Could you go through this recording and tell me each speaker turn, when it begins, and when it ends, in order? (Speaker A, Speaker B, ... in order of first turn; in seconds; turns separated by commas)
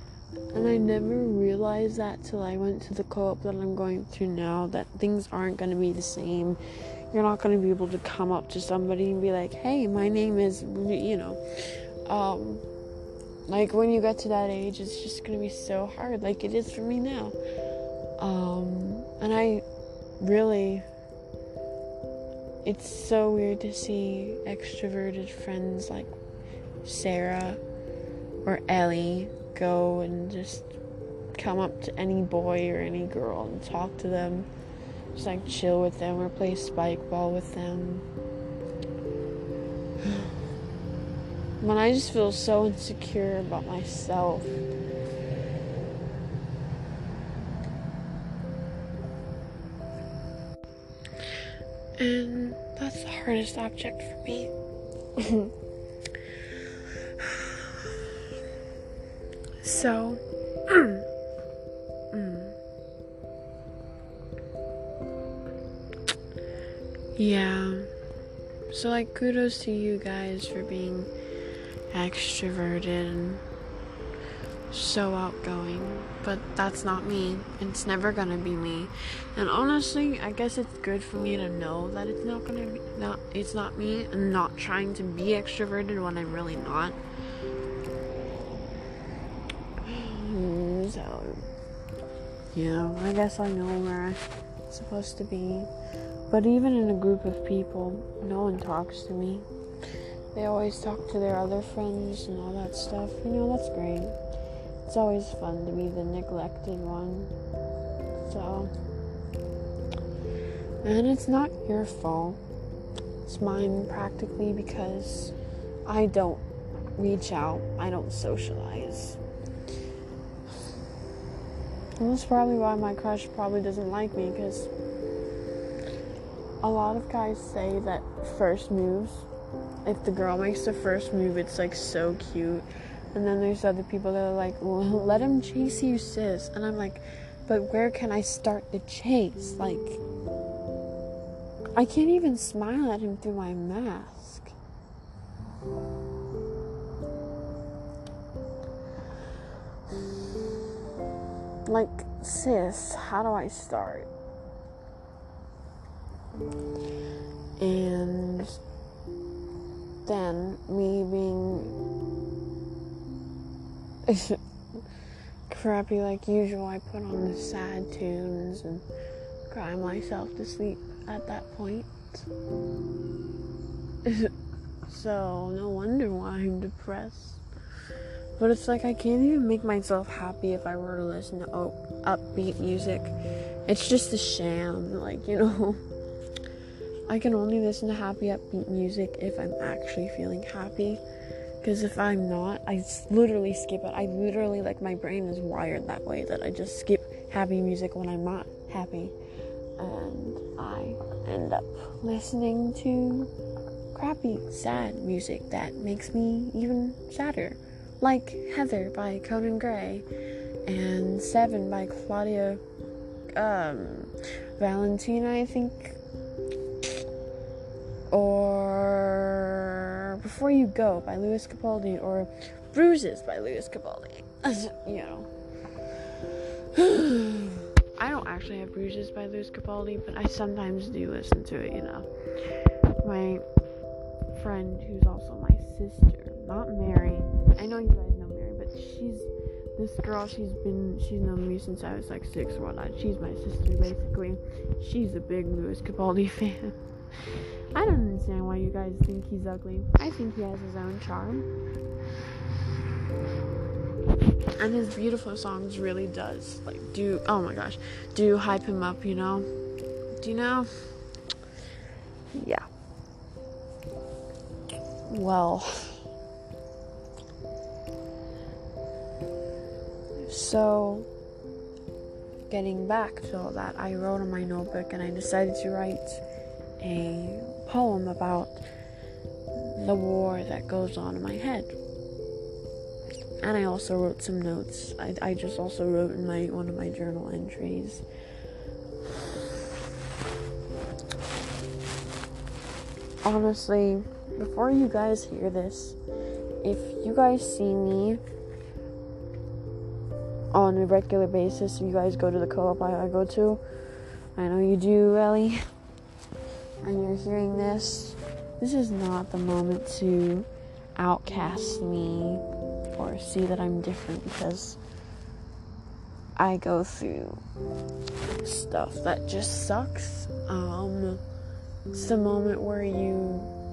Speaker A: 0.5-6.6, Speaker A: 7.1-12.7, Speaker A: 13.5-17.4, Speaker A: 18.2-19.6, Speaker A: 20.2-20.9, Speaker A: 22.6-26.2, Speaker A: 26.8-27.6, Speaker A: 28.4-30.7, Speaker A: 31.3-34.5, Speaker A: 35.1-38.1, Speaker A: 40.0-40.4, Speaker A: 41.6-44.6, Speaker A: 52.0-54.5, Speaker A: 55.2-55.5, Speaker A: 57.2-58.2, Speaker A: 59.6-61.0, Speaker A: 62.1-62.6, Speaker A: 67.2-67.9, Speaker A: 68.7-71.1, Speaker A: 71.9-73.4, Speaker A: 74.7-87.0, Speaker A: 89.8-91.4, Speaker A: 92.5-95.7, Speaker A: 96.3-99.5, Speaker A: 100.3-104.2, Speaker A: 104.8-107.3, Speaker A: 108.2-108.7, Speaker A: 110.8-112.4, Speaker A: 113.2-116.5, Speaker A: 117.0-119.2, Speaker A: 122.0-124.7, Speaker A: 126.6-129.3, Speaker A: 129.8-140.0, Speaker A: 141.8-144.5, Speaker A: 151.7-154.1, Speaker A: 157.6-158.6, Speaker A: 160.1-161.8, Speaker A: 164.1-164.8, Speaker A: 165.5-168.8, Speaker A: 169.5-172.3, Speaker A: 174.0-174.3, Speaker A: 174.9-177.4, Speaker A: 178.4-183.1, Speaker A: 183.7-185.8, Speaker A: 187.1-191.0, Speaker A: 191.6-199.2, Speaker A: 199.8-203.3, Speaker A: 203.9-210.1, Speaker A: 210.7-212.6, Speaker A: 213.3-216.0, Speaker A: 218.1-225.3, Speaker A: 226.1-233.4, Speaker A: 234.3-246.8, Speaker A: 247.3-251.5, Speaker A: 254.6-259.5, Speaker A: 260.2-260.9, Speaker A: 262.3-262.7, Speaker A: 265.1-266.0, Speaker A: 270.2-271.1, Speaker A: 272.5-276.2, Speaker A: 276.8-278.6, Speaker A: 279.6-281.7, Speaker A: 283.4-288.1, Speaker A: 293.2-296.0, Speaker A: 296.6-298.2, Speaker A: 300.5-303.6, Speaker A: 304.4-305.6, Speaker A: 306.8-314.8, Speaker A: 316.4-317.4, Speaker A: 318.4-321.2, Speaker A: 321.9-323.5